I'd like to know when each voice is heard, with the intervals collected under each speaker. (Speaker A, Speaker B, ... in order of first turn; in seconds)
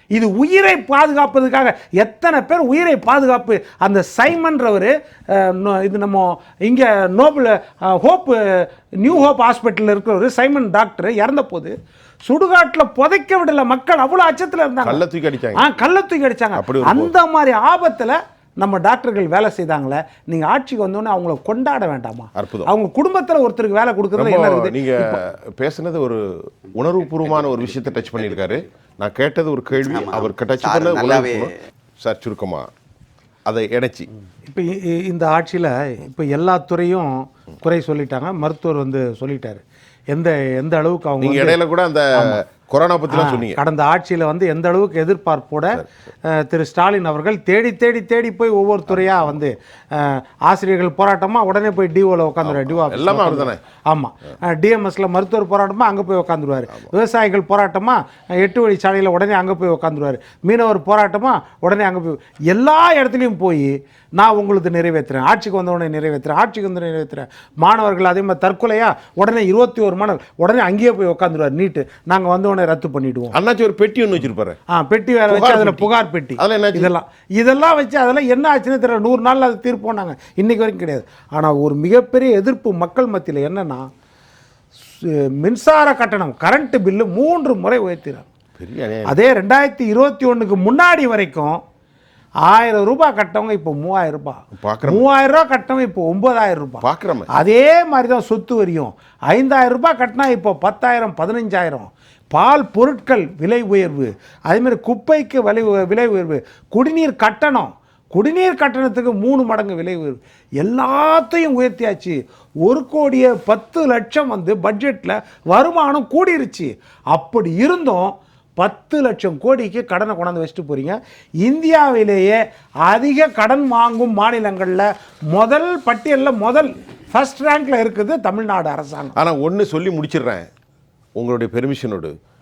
Speaker A: 0.1-11.7, 12.2-15.0, 15.5-25.2, 34.5-41.6, 43.1-73.3, 74.7-83.9, 85.0-88.2, 89.0-91.6, 92.4-129.2
Speaker B: 14.8-15.6, 16.5-17.1, 22.4-22.7, 24.1-32.7, 33.5-34.1, 41.2-43.6, 52.4-53.6, 73.3-74.6, 75.3-76.9, 88.6-89.1, 94.5-95.0, 96.8-97.3, 129.2-130.5, 131.2-132.1